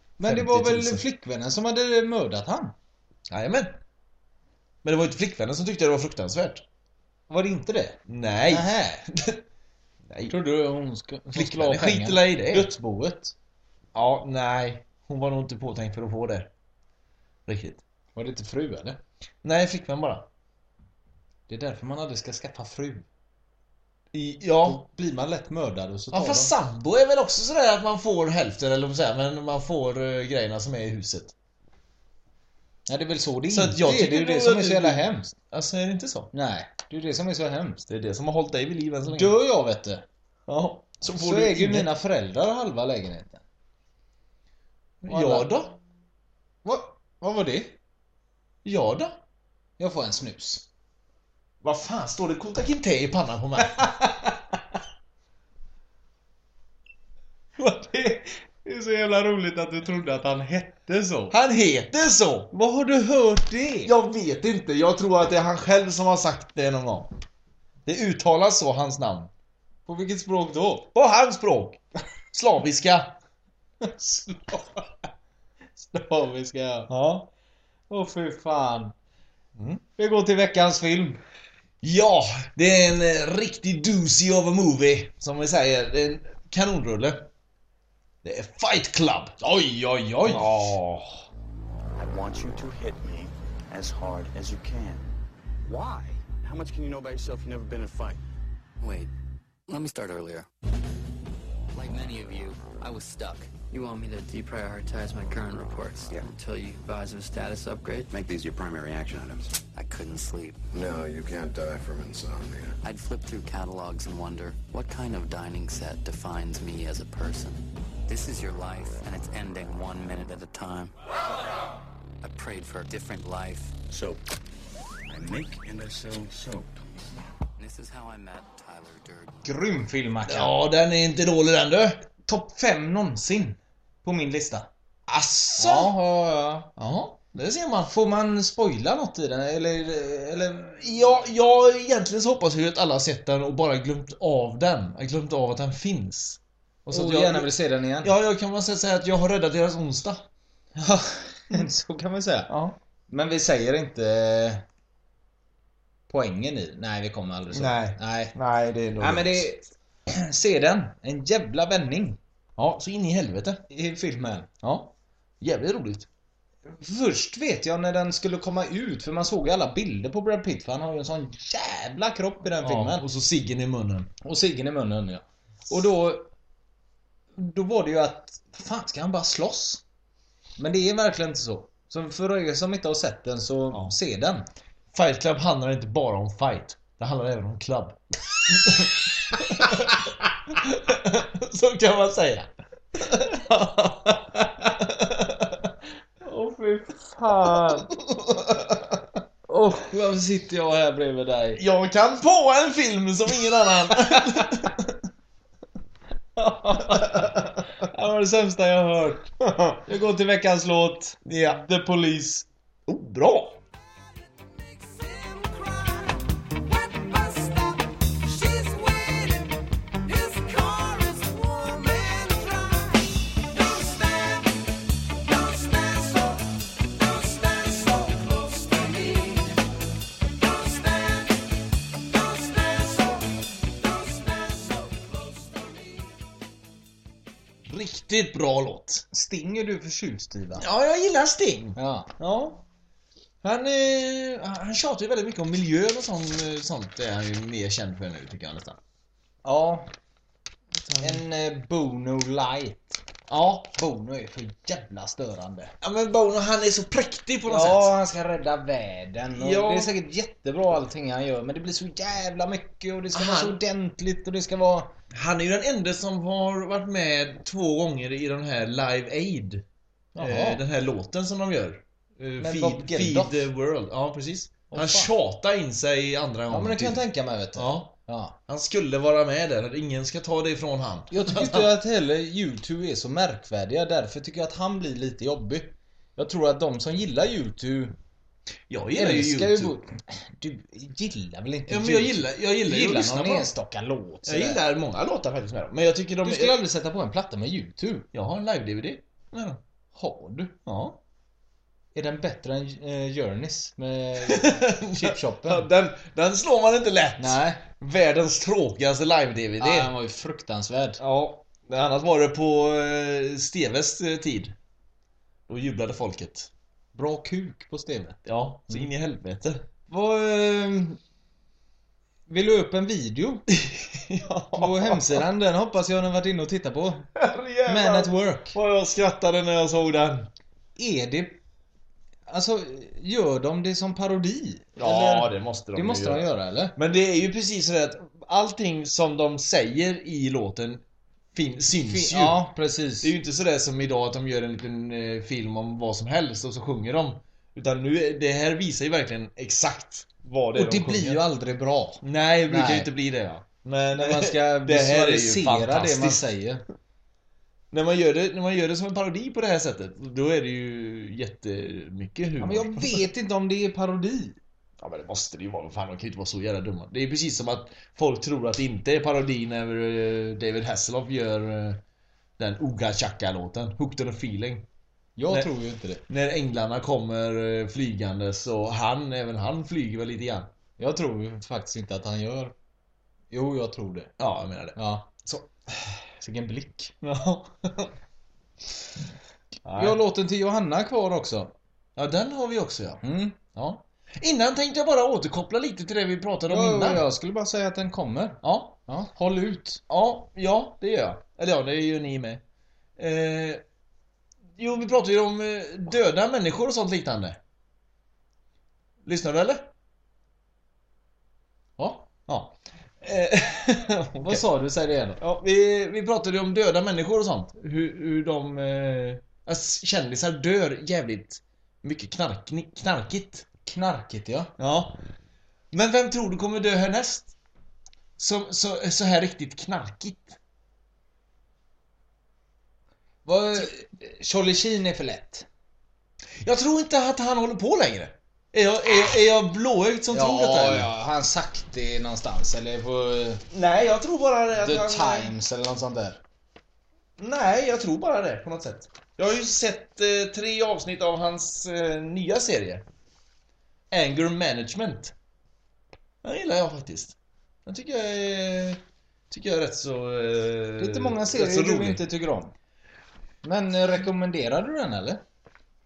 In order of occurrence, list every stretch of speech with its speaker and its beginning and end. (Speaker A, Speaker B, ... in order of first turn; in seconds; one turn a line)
Speaker A: 0.2-2.8
Speaker B: 0.2-1.1
Speaker B: 3.3-3.8
Speaker B: 4.8-6.7
Speaker A: 7.3-8.0
Speaker B: 8.1-9.4
Speaker A: 8.5-9.0
Speaker B: 10.1-10.3
Speaker A: 10.3-13.3
Speaker B: 11.3-12.7
Speaker B: 13.9-16.5
Speaker B: 17.5-17.8
Speaker A: 18.1-19.0
Speaker B: 19.4-20.3
Speaker A: 21.5-23.1
Speaker B: 24.1-24.8
Speaker A: 24.6-26.5
Speaker B: 26.1-31.3
Speaker A: 32.9-35.3
Speaker B: 33.5-36.3
Speaker A: 36.3-37.9
Speaker B: 37.9-39.4
Speaker A: 39.1-40.0
Speaker B: 40.5-41.9
Speaker A: 41.1-43.4
Speaker B: 45.0-45.7
Speaker A: 45.1-45.5
Speaker A: 46.6-47.8
Speaker B: 48.6-49.2
Speaker A: 49.8-50.7
Speaker B: 51.6-53.9
Speaker A: 53.8-54.4
Speaker A: 57.6-61.4
Speaker B: 61.3-62.5
Speaker A: 62.5-63.9
Speaker B: 63.8-67.1
Speaker B: 67.9-69.3
Speaker A: 69.9-70.9
Speaker B: 70.9-71.8
Speaker B: 72.3-73.2
Speaker A: 73.8-74.8
Speaker A: 75.8-76.9
Speaker B: 76.9-77.3
Speaker A: 77.9-78.9
Speaker B: 79.6-79.8
Speaker A: 80.0-81.2
Speaker B: 81.8-87.3
Speaker B: 88.2-89.4
Speaker A: 89.4-90.8
Speaker B: 90.3-91.2
Speaker C: 92.0-95.1
Speaker C: 95.7-98.2
Speaker D: 98.8-99.1
Speaker D: 99.7-100.5
Speaker D: 101.7-108.2
Speaker C: 108.1-109.6
Speaker D: 109.7-110.7
Speaker E: 110.7-112.8
Speaker D: 112.8-120.9
Speaker D: 122.2-123.8
Speaker C: 123.9-124.2
Speaker C: 125.1-127.0
Speaker D: 127.6-129.4
Speaker A: 129.4-130.6
Speaker B: 130.3-132.0
Speaker A: 132.3-134.7
Speaker B: 135.1-135.9
Speaker A: 135.6-136.7
Speaker B: 136.8-137.9
Speaker A: 137.8-140.9
Speaker B: 140.8-150.3
Speaker A: 146.9-148.1
Speaker A: 150.8-152.5
Speaker B: 152.5-152.8
Speaker A: 153.1-154.7
Speaker A: 156.1-158.3
Speaker B: 157.5-159.5
Speaker A: 159.0-162.2
Speaker B: 162.6-163.6
Speaker A: 163.7-164.5
Speaker B: 164.6-166.1
Speaker A: 166.7-173.1
Speaker B: 172.6-174.1
Speaker A: 174.2-176.3
Speaker A: 177.4-179.8
Speaker A: 180.6-184.5
Speaker B: 184.9-195.7
Speaker A: 196.2-197.9
Speaker B: 197.8-199.0
Speaker A: 199.5-201.6
Speaker B: 201.6-204.9
Speaker A: 204.1-204.7
Speaker A: 206.4-209.3
Speaker B: 206.9-207.5
Speaker B: 209.4-209.8
Speaker A: 209.8-212.5
Speaker B: 211.3-211.6
Speaker B: 212.9-213.6
Speaker A: 214.8-216.1
Speaker A: 216.7-219.5
Speaker A: 220.1-222.8
Speaker B: 237.7-239.1
Speaker A: 239.1-240.7
Speaker B: 240.6-242.6
Speaker A: 241.8-242.1
Speaker B: 243.4-248.8
Speaker A: 249.4-249.9
Speaker B: 250.8-251.2
Speaker A: 251.0-253.0
Speaker B: 253.3-253.7
Speaker A: 253.6-255.7
Speaker B: 255.8-257.9
Speaker A: 257.5-264.9
Speaker B: 259.3-259.9
Speaker B: 263.1-263.6
Speaker B: 265.1-269.6
Speaker A: 270.1-270.6
Speaker B: 270.2-277.9
Speaker A: 272.4-273.5
Speaker A: 274.7-275.1
Speaker A: 276.5-278.4
Speaker B: 278.5-281.7
Speaker A: 281.1-287.9
Speaker B: 288.7-289.8
Speaker A: 288.9-294.6
Speaker B: 291.7-293.5
Speaker B: 294.2-296.6
Speaker A: 296.2-298.1
Speaker B: 298.1-299.6
Speaker A: 299.9-300.5
Speaker B: 300.7-301.0
Speaker A: 301.9-305.7
Speaker B: 304.2-309.9
Speaker A: 307.2-307.6
Speaker A: 309.6-311.0
Speaker B: 311.0-314.6
Speaker B: 315.5-316.5
Speaker A: 316.9-318.2
Speaker B: 318.3-319.6
Speaker A: 319.9-321.0
Speaker A: 322.3-323.4
Speaker B: 323.5-325.2
Speaker A: 324.6-327.1
Speaker B: 327.1-330.3
Speaker A: 327.7-328.6
Speaker A: 330.8-331.4
Speaker A: 332.3-336.8
Speaker B: 334.8-342.4
Speaker A: 341.7-343.1
Speaker B: 343.0-351.2
Speaker A: 350.6-352.9
Speaker B: 352.0-356.3
Speaker A: 353.9-356.6
Speaker B: 357.7-363.0
Speaker A: 362.4-364.4
Speaker B: 364.8-371.8
Speaker B: 372.4-374.7
Speaker A: 375.2-376.0
Speaker B: 376.1-380.5
Speaker A: 380.8-382.5
Speaker A: 383.3-384.1
Speaker B: 384.2-385.5
Speaker A: 384.8-385.1
Speaker A: 386.2-386.9
Speaker B: 387.0-387.9
Speaker B: 389.6-390.0
Speaker A: 389.8-391.5
Speaker B: 392.0-397.1
Speaker A: 393.0-393.4
Speaker A: 396.5-399.8
Speaker B: 398.4-398.7
Speaker B: 399.9-402.4
Speaker B: 403.0-403.6
Speaker B: 404.6-407.4
Speaker B: 409.0-409.7
Speaker A: 411.8-412.1
Speaker B: 412.3-414.5
Speaker A: 414.2-415.2
Speaker B: 415.2-423.5
Speaker A: 423.7-424.5
Speaker B: 424.6-425.0
Speaker B: 425.7-427.3
Speaker B: 428.2-430.4
Speaker A: 433.2-435.5
Speaker B: 436.4-440.9
Speaker A: 440.1-443.4
Speaker B: 443.5-445.4
Speaker A: 444.6-446.2
Speaker B: 447.2-452.9
Speaker B: 453.9-455.1
Speaker B: 456.2-462.0
Speaker A: 460.8-462.5
Speaker A: 463.4-465.2